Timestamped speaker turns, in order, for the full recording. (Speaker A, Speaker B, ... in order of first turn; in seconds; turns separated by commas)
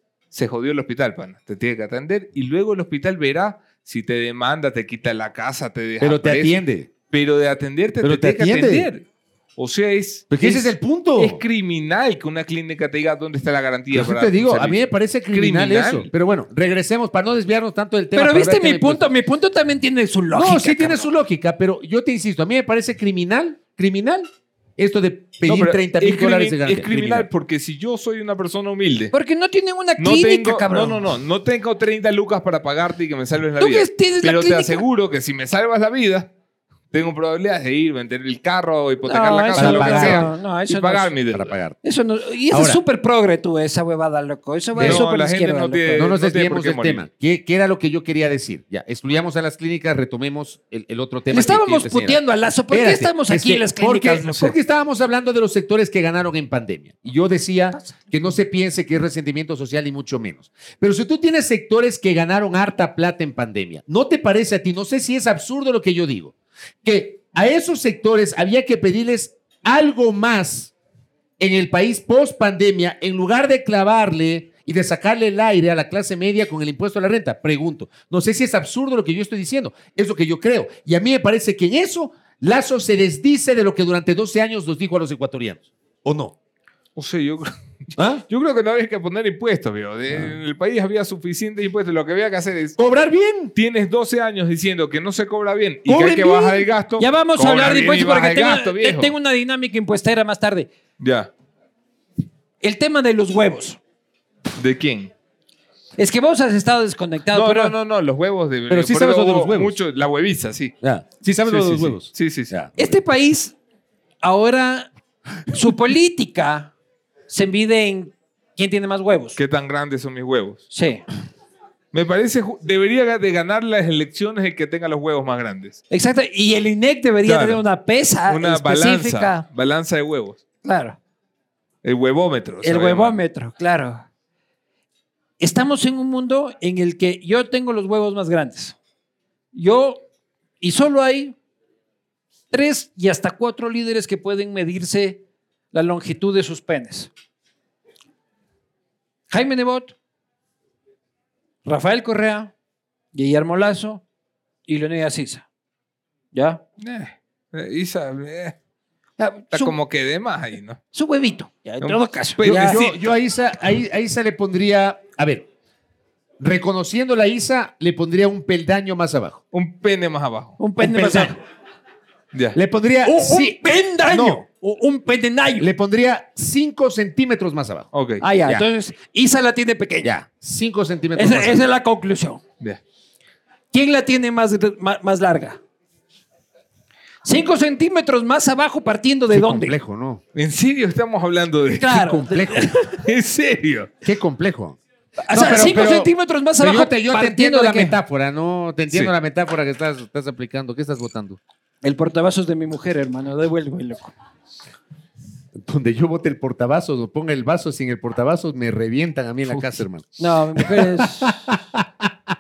Speaker A: 0.3-9.1, Speaker B: 6.0-6.9, Speaker B: 8.0-8.9, Speaker A: 9.6-16.1, Speaker B: 10.3-11.4, Speaker B: 13.9-19.1, Speaker C: 18.1-21.1, Speaker B: 20.4-27.3, Speaker A: 25.5-29.1, Speaker C: 29.1-31.1, Speaker A: 30.0-36.3, Speaker C: 33.6-34.9, Speaker A: 36.9-41.5, Speaker C: 39.1-41.1, Speaker B: 39.5-40.3, Speaker B: 41.3-41.8, Speaker C: 41.8-46.1, Speaker B: 42.5-42.8, Speaker B: 44.8-45.0, Speaker A: 44.8-47.0, Speaker B: 46.0-52.2, Speaker C: 51.3-54.5, Speaker B: 52.7-70.7, Speaker B: 71.4-86.3, Speaker A: 87.0-87.5, Speaker B: 88.0-88.2, Speaker A: 88.3-92.8, Speaker B: 90.1-90.3, Speaker B: 92.8-93.5, Speaker A: 93.5-99.1, Speaker C: 95.9-100.7, Speaker B: 95.9-96.5, Speaker A: 101.0-101.3, Speaker C: 102.6-103.8, Speaker A: 104.6-105.1, Speaker C: 106.0-107.8, Speaker A: 107.3-110.7, Speaker B: 108.7-109.8, Speaker B: 110.8-113.0, Speaker A: 111.5-112.5, Speaker C: 112.8-113.5, Speaker C: 114.2-114.9, Speaker C: 115.5-116.7, Speaker C: 117.3-119.4, Speaker A: 119.4-120.7, Speaker C: 120.7-121.0, Speaker A: 121.9-125.8, Speaker C: 125.9-129.4, Speaker A: 127.2-127.6, Speaker A: 128.3-130.4, Speaker C: 130.6-131.0, Speaker A: 131.8-133.2, Speaker C: 132.6-134.1, Speaker C: 135.4-138.8, Speaker C: 139.5-140.0, Speaker C: 140.6-141.4, Speaker C: 142.5-145.2, Speaker C: 145.7-147.1, Speaker C: 149.3-149.9, Speaker C: 151.7-152.5, Speaker C: 153.1-154.0, Speaker C: 154.7-155.5, Speaker C: 156.3-156.6, Speaker A: 156.8-158.6, Speaker C: 159.2-159.8, Speaker A: 159.5-160.8, Speaker C: 160.9-162.8, Speaker A: 161.8-163.1, Speaker B: 162.4-165.5, Speaker B: 166.4-169.4, Speaker A: 169.5-170.6, Speaker C: 170.6-171.4, Speaker B: 170.8-171.3, Speaker A: 172.3-172.6, Speaker B: 172.5-174.4, Speaker C: 173.0-175.7, Speaker B: 175.6-177.9, Speaker A: 177.9-178.2, Speaker C: 178.2-180.1, Speaker B: 180.0-181.6, Speaker C: 181.2-182.4, Speaker C: 183.7-185.6, Speaker C: 187.2-189.8, Speaker B: 189.3-190.2, Speaker A: 190.3-191.9, Speaker C: 191.8-193.0, Speaker B: 191.9-192.7, Speaker A: 193.0-193.9, Speaker B: 194.0-194.8, Speaker C: 195.2-198.0, Speaker B: 195.3-201.4, Speaker C: 201.8-204.1, Speaker B: 205.6-212.1, Speaker C: 210.2-211.5